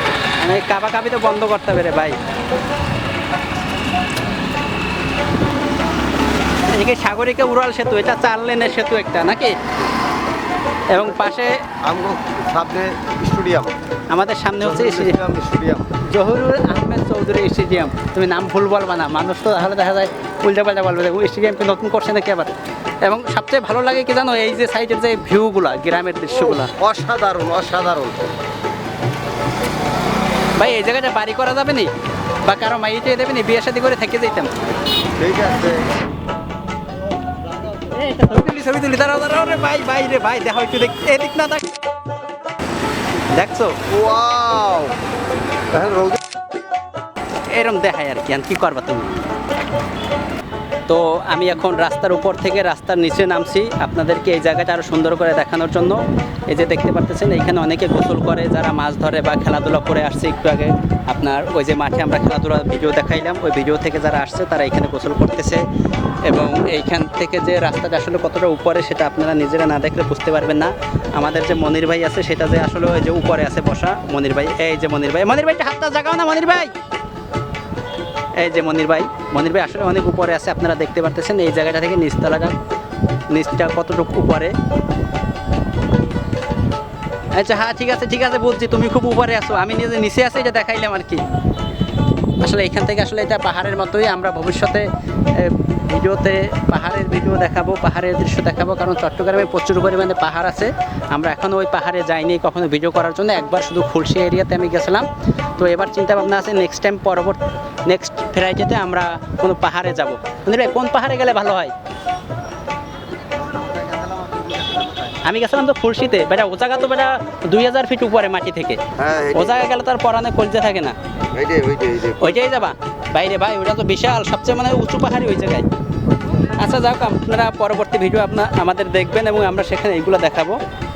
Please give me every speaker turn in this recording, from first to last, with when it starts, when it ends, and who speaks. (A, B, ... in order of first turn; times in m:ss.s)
0:00.4-0:02.2 A
0:06.7-0:09.6 A
0:10.9-0:11.6 A
0:11.8-0:13.8 B
0:14.1-0:15.2 A
0:14.6-0:15.9 B
0:16.0-0:26.7 A
0:26.3-0:28.2 B
0:30.6-0:31.9 A
0:32.4-0:34.5 A
0:35.2-0:35.9 B
0:37.8-0:41.7 A
0:43.3-0:43.8 A
0:43.9-0:44.9 B
0:45.7-0:46.2 B
0:47.5-0:49.1 A
0:50.9-1:05.6 A
1:06.2-1:16.7 A
1:18.3-1:22.6 A
1:23.3-1:24.5 A
1:27.3-1:31.2 A
1:32.4-1:51.7 A
1:53.4-1:55.2 B
1:55.2-1:58.8 A
1:59.0-1:59.6 B
1:59.3-2:00.9 A
2:01.3-2:02.4 B
2:02.2-2:05.7 A
2:06.6-2:10.6 A